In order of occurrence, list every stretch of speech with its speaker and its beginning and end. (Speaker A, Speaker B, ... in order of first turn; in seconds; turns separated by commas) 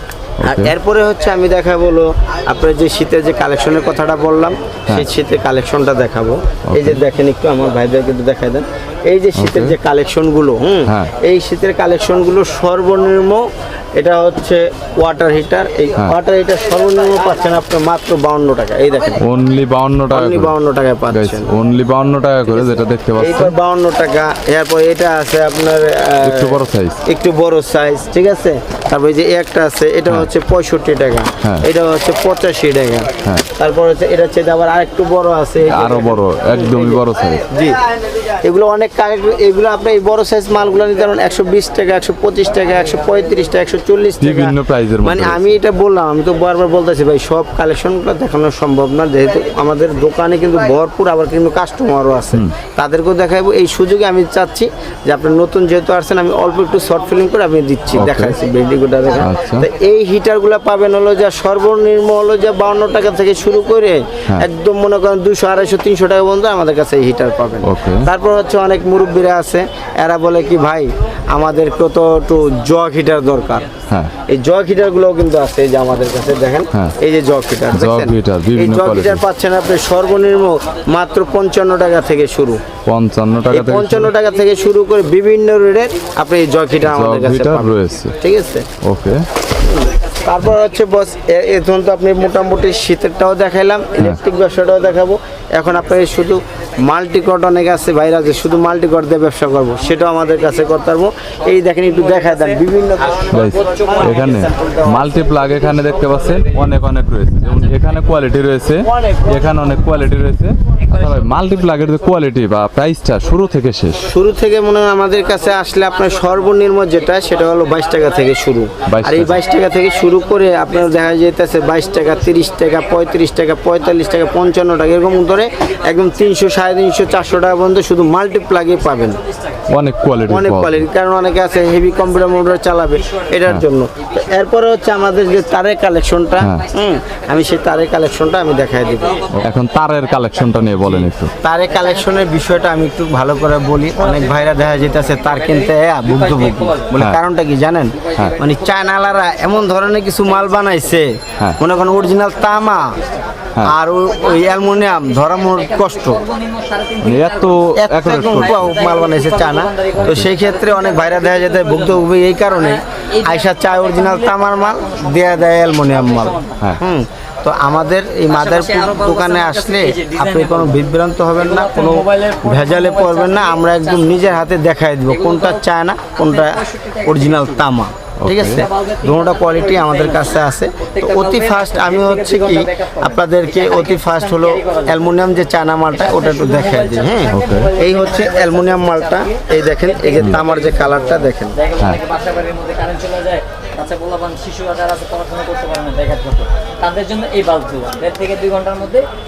Speaker A: 0.4-0.7, Speaker B: 0.4-13.4, Speaker A: 6.7-7.0, Speaker A: 9.3-9.7, Speaker A: 10.9-11.1, Speaker B: 13.9-19.2, Speaker A: 19.2-20.5, Speaker B: 20.1-21.5, Speaker A: 21.1-23.5, Speaker B: 22.5-37.8, Speaker A: 26.2-27.0, Speaker A: 31.4-31.7, Speaker A: 35.7-37.4, Speaker B: 38.4-73.7, Speaker A: 44.2-45.5, Speaker A: 57.9-58.3, Speaker A: 59.2-59.7, Speaker A: 67.6-68.1, Speaker B: 74.3-82.6, Speaker A: 77.7-79.2, Speaker A: 82.8-84.1, Speaker B: 83.5-88.7, Speaker A: 86.8-88.2, Speaker A: 88.8-89.2, Speaker B: 89.6-105.2, Speaker A: 103.3-114.1, Speaker C: 103.7-104.2, Speaker B: 108.9-109.3, Speaker B: 114.0-129.2, Speaker A: 118.9-119.4, Speaker A: 129.7-130.9, Speaker B: 130.2-139.2, Speaker A: 136.4-136.7, Speaker A: 139.3-141.3, Speaker B: 141.4-152.9, Speaker C: 145.3-146.9, Speaker C: 148.0-148.5, Speaker B: 153.6-156.2, Speaker C: 155.3-166.6, Speaker A: 157.0-158.8, Speaker B: 157.8-191.6, Speaker A: 160.0-160.3, Speaker C: 168.3-170.8, Speaker C: 171.4-174.3, Speaker C: 175.1-177.6, Speaker A: 178.2-178.7, Speaker C: 178.5-185.1, Speaker C: 185.9-199.1, Speaker A: 187.3-187.7